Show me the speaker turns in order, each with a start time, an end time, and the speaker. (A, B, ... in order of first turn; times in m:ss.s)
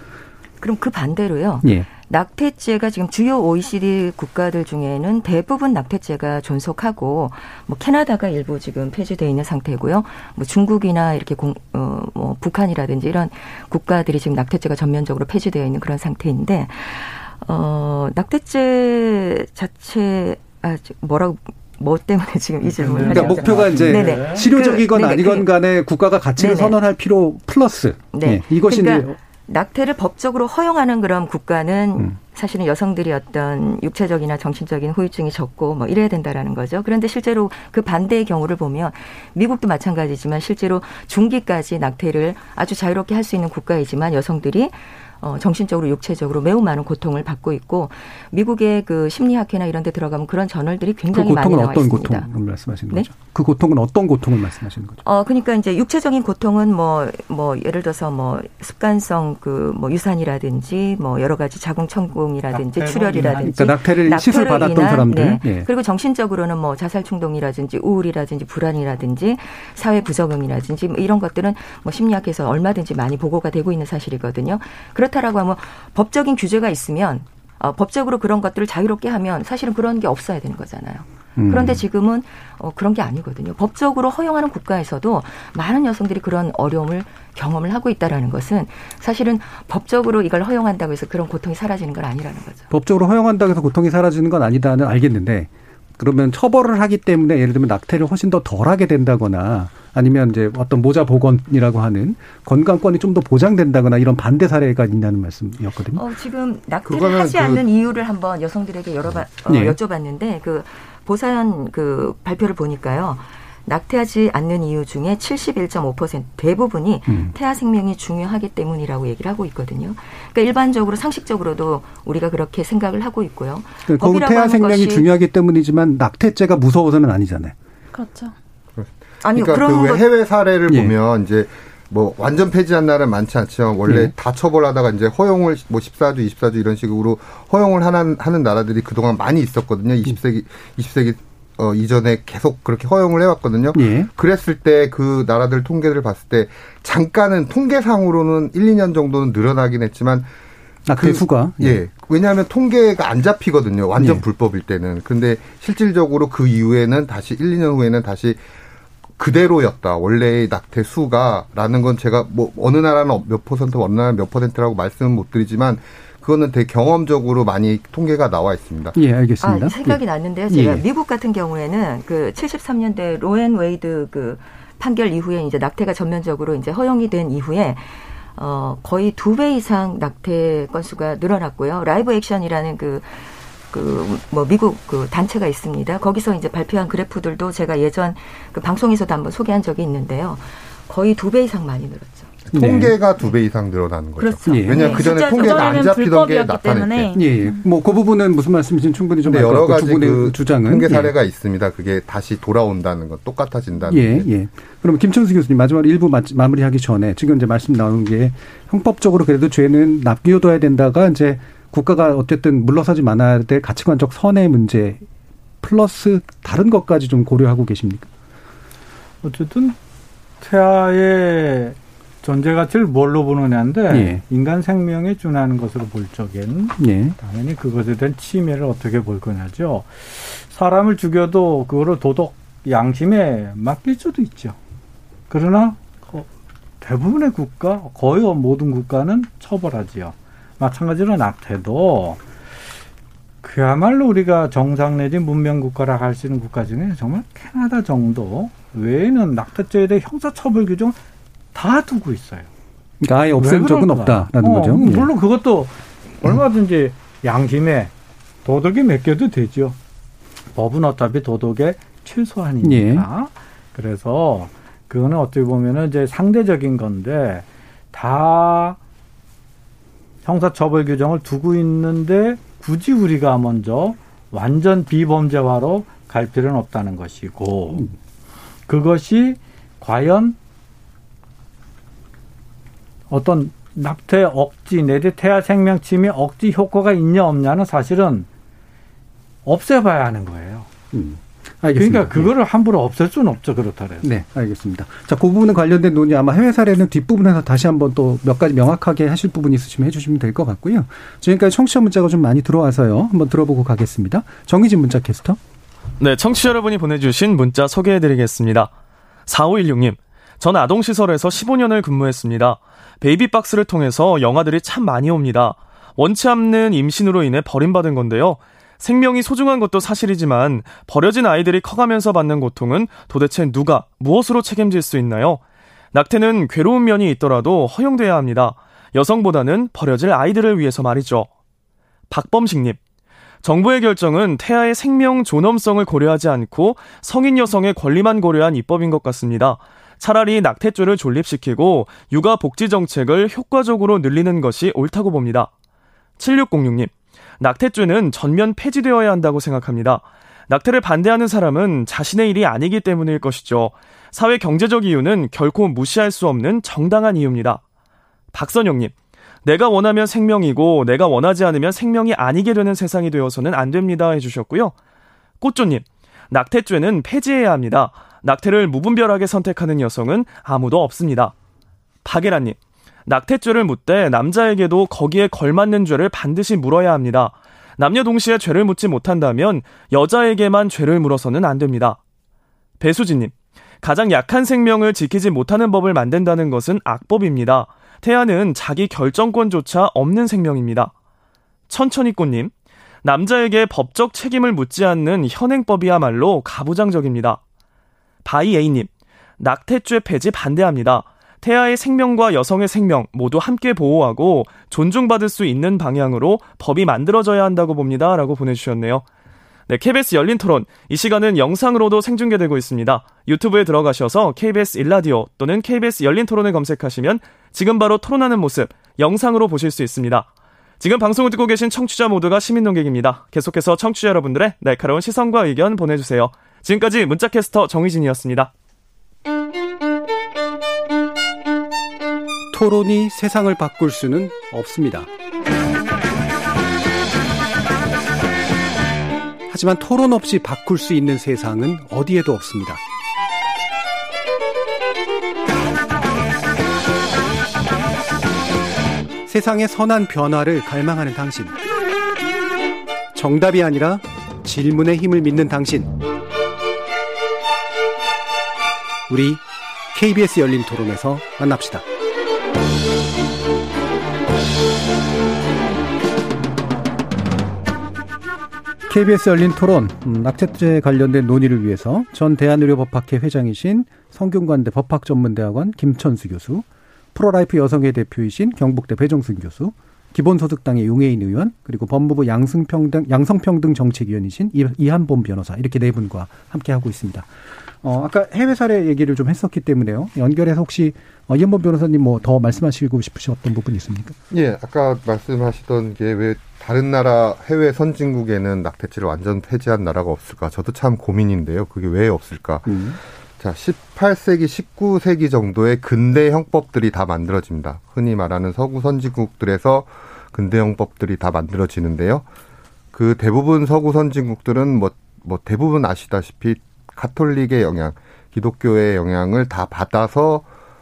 0:00.6-0:25.5 A
0:22.7-0:24.5 B
0:22.9-0:29.2 C
0:26.4-0:26.8 A
0:28.1-0:52.3 A
0:51.1-0:55.0 C
0:55.0-1:32.7 A
1:02.5-1:03.5 B
1:03.4-1:05.7 C
1:21.4-1:21.8 C
1:32.7-1:46.0 C
1:45.9-2:05.1 A
1:46.9-1:47.6 D
1:49.5-1:49.8 C
2:03.9-2:07.5 C
2:07.9-2:08.3 E
2:08.8-2:30.3 D
2:09.2-2:10.0 A
2:13.9-2:14.1 C
2:23.8-2:24.1 C
2:30.9-2:31.8 C
2:31.0-2:38.4 D
2:34.0-2:34.2 C
2:39.2-2:49.0 D
2:49.0-2:50.0 C
2:49.4-3:12.4 A
2:50.5-2:50.8 C
3:12.5-3:17.1 D
3:12.5-3:13.0 C
3:14.4-3:14.9 C
3:14.7-3:15.1 A
3:14.7-3:17.6 E
3:17.2-3:21.1 C
3:19.2-3:24.3 D
3:23.9-3:35.0 C
3:35.6-3:38.1 C
3:39.2-3:39.8 B
3:40.4-3:54.6 B
3:43.9-3:44.2 C
3:46.8-3:47.2 C
3:55.3-3:56.3 B
3:56.8-4:02.2 B
4:03.4-4:11.0 B
4:11.5-4:12.5 B
4:13.0-4:15.1 C
4:13.4-4:17.9 B
4:18.4-4:19.8 B
4:20.5-4:28.8 B
4:22.6-4:23.1 C
4:30.2-4:37.9 B
4:38.7-4:40.4 B
4:43.1-4:48.3 B
4:49.4-4:50.7 B
4:50.9-4:52.3 C
4:51.8-4:54.0 B
4:54.0-5:05.4 C
5:06.0-5:08.7 F
5:09.3-5:25.4 F
5:25.9-5:31.3 F
5:32.1-5:32.8 F
5:33.4-5:45.5 F
5:46.2-5:57.6 F
5:58.3-5:58.9 F
5:59.4-6:04.7 F
6:05.4-6:11.3 F
6:12.0-6:22.0 F
6:22.8-6:30.9 F
6:31.7-6:32.5 F
6:33.0-6:37.4 F
6:38.2-6:49.0 F
6:49.7-7:00.3 F
7:00.8-7:08.5 F
7:12.5-7:15.1 C
7:19.5-7:22.8 C
7:29.3-7:31.6 C
7:33.1-7:35.9 C
7:39.1-7:41.8 C
7:48.9-8:07.3 C
8:07.8-8:14.2 C
8:14.3-8:22.8 D
8:22.7-8:23.0 C
8:23.4-8:32.3 D
8:32.9-8:40.5 D